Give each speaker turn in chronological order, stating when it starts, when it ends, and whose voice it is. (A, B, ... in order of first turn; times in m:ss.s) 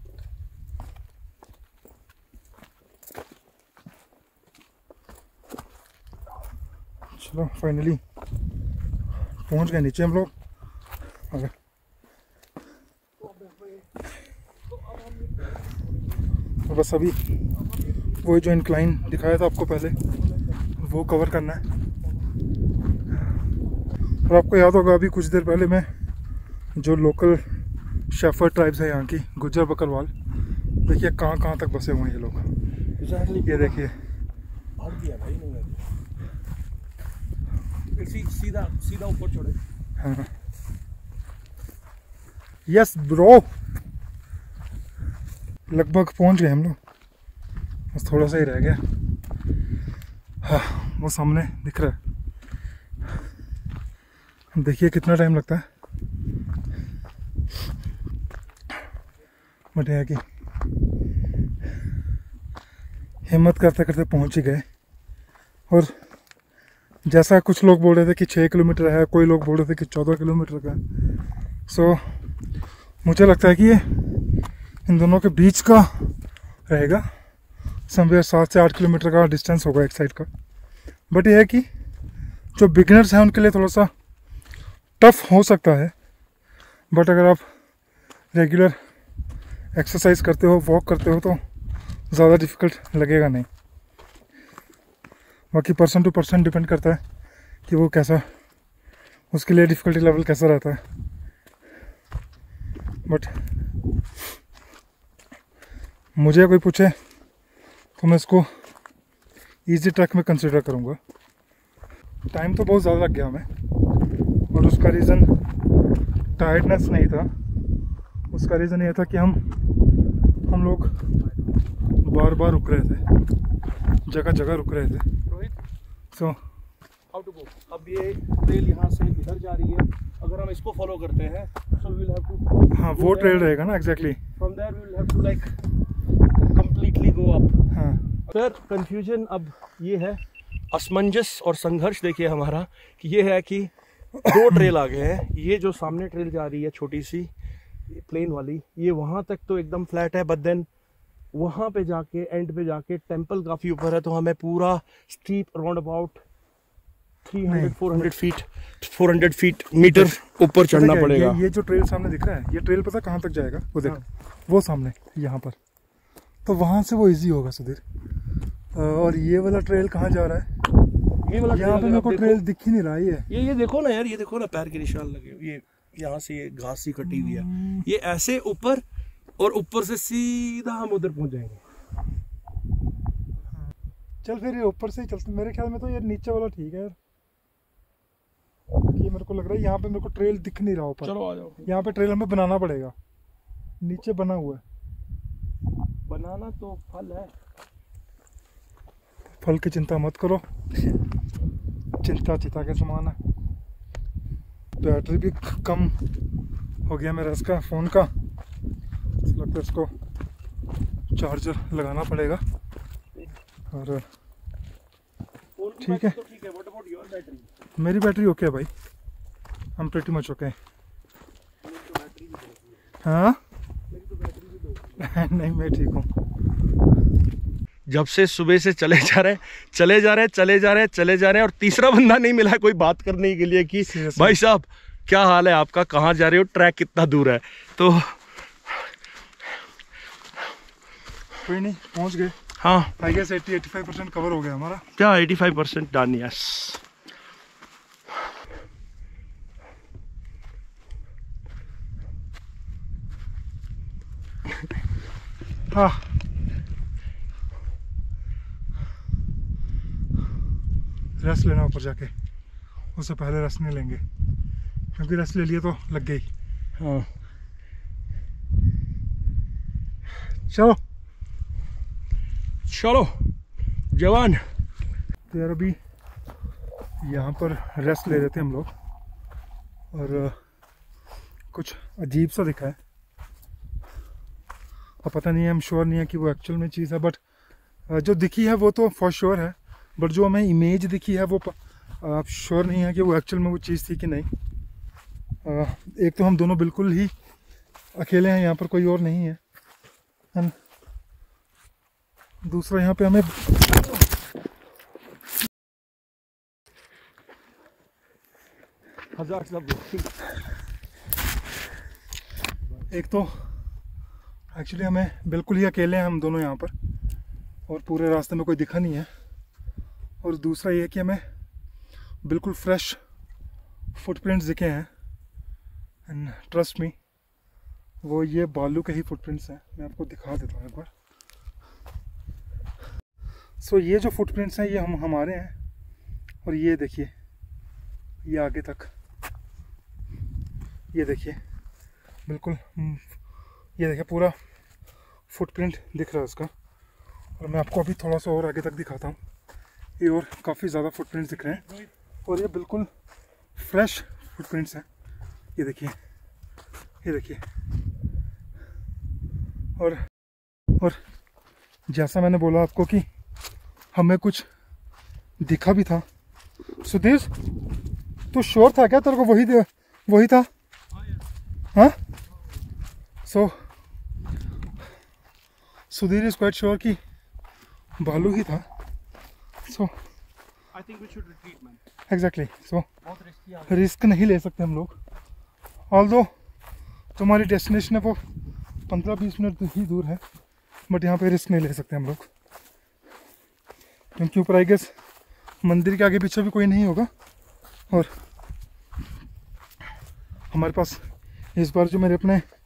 0:07.2-0:08.0 A
0:09.5-0:10.3 A
0:13.2-0:14.0 B
0:14.7-0:16.2 B
0:16.6-0:17.2 A
0:18.2-0:20.0 A
0:20.8-0:21.6 A
0:24.3-0:25.9 A
0:26.8-0:27.4 A
0:28.1-0:30.1 A
0:30.8-0:32.4 A
0:33.0-0:33.8 B
0:33.4-0:34.0 A
0:34.8-0:35.9 B
0:37.9-0:39.6 B
0:40.0-0:40.3 A
0:42.7-0:43.5 A
0:45.7-0:46.8 A
0:47.9-0:48.8 A
0:50.4-0:52.0 A
0:54.5-0:55.6 A
0:59.7-1:00.2 A
1:03.2-1:04.6 A
1:05.7-1:05.9 A
1:07.0-1:10.8 A
1:11.7-1:12.0 A
1:13.0-1:13.9 A
1:14.8-1:16.1 A
1:16.7-1:17.0 A
1:17.9-1:20.3 A
1:21.1-1:21.7 A
1:22.6-1:23.9 A
1:25.0-1:25.9 A
1:26.9-1:27.4 A
1:28.3-1:28.8 A
1:29.7-1:31.4 A
1:32.1-1:33.5 A
1:35.5-1:37.0 A
1:37.7-1:38.2 A
1:39.3-1:40.8 A
1:43.0-1:43.3 A
1:46.2-1:46.9 A
1:48.0-1:48.5 A
1:49.7-1:51.0 A
1:52.3-1:53.5 A
1:54.5-1:55.3 A
1:56.4-1:57.3 A
1:58.3-1:59.4 A
2:00.5-2:00.9 A
2:02.0-2:03.0 A
2:04.0-2:05.1 A
2:05.3-2:05.6 B
2:06.1-2:06.4 A
2:07.1-2:13.5 B
2:12.7-2:14.2 A
2:14.4-2:15.6 B
2:16.5-2:17.6 B
2:17.7-2:18.0 A
2:18.3-2:27.3 B
2:24.2-2:24.7 A
2:27.9-2:30.7 B
2:31.3-2:36.2 B
2:37.2-2:41.4 B
2:37.4-2:38.1 A
2:39.8-2:45.6 A
2:46.4-2:47.8 A
2:48.7-2:50.5 A
2:51.2-2:52.4 B
2:51.5-2:53.3 A
2:53.3-2:58.8 B
2:57.1-2:57.8 A
2:59.4-3:01.6 B
3:04.2-3:07.0 A
3:08.9-3:12.9 A
3:11.0-3:11.7 B
3:13.8-3:14.6 A
3:16.1-3:17.3 B
3:19.4-3:20.4 A
3:22.0-3:23.2 A
3:24.8-3:25.9 A
3:26.9-3:28.1 A
3:29.2-3:29.9 A
3:31.1-3:32.4 A
3:33.7-3:34.0 A
3:35.6-3:37.5 B
3:35.8-3:36.2 A
3:37.8-3:38.7 A
3:39.8-3:40.6 A
3:41.6-3:42.8 B
3:43.0-3:43.4 A
3:43.9-3:45.1 B
3:45.0-3:46.1 A
3:47.9-3:58.9 B
3:53.8-3:54.4 A
4:01.4-4:02.4 A
4:02.6-4:02.9 B
4:03.0-4:04.8 A
4:05.0-4:06.8 B
4:15.7-4:16.1 A
4:21.2-4:22.1 A
4:22.9-4:24.0 A
4:25.0-4:26.3 A
4:26.8-4:27.1 B
4:30.5-4:30.8 A
4:32.6-4:33.3 B
4:33.9-4:34.4 B
4:35.3-4:35.8 A
4:37.0-4:38.7 A
4:39.9-4:40.4 A
4:41.5-4:42.8 A
4:45.0-4:47.2 A
4:47.9-4:54.3 A
4:55.4-4:57.1 A
4:58.0-4:59.4 A
5:02.4-5:03.6 A
5:09.1-5:10.1 B
5:12.9-5:13.5 A
5:14.5-5:16.7 A
5:17.7-5:19.1 A
5:20.2-5:21.2 A
5:22.2-5:23.0 A
5:23.9-5:24.9 A
5:26.1-5:26.9 A
5:28.0-5:30.9 A
5:33.6-5:35.5 A
5:36.4-5:37.1 A
5:38.2-5:38.9 A
5:40.9-5:41.4 A
5:42.3-5:43.1 A
5:43.8-5:44.3 A
5:45.3-5:46.5 A
5:47.4-5:49.2 A
5:50.0-5:51.6 A
5:51.4-5:51.9 B
5:52.2-5:52.9 A
5:53.6-5:54.8 A
5:55.6-5:56.0 A
5:57.0-5:57.4 A
5:59.8-6:00.0 A
6:01.9-6:03.1 A
6:03.9-6:04.5 A
6:05.4-6:06.0 A
6:06.8-6:07.3 A
6:08.3-6:10.5 A
6:11.0-6:11.2 B
6:13.2-6:13.6 A
6:15.9-6:17.0 A
6:18.0-6:18.7 A
6:19.6-6:19.9 A
6:20.7-6:21.8 B
6:22.1-6:22.9 A
6:23.0-6:23.8 B
6:23.7-6:25.0 A
6:25.9-6:26.3 A
6:27.2-6:28.2 A
6:28.9-6:30.2 A
6:30.9-6:32.3 A
6:34.2-6:34.9 A
6:35.6-6:37.1 A
6:40.5-6:42.4 A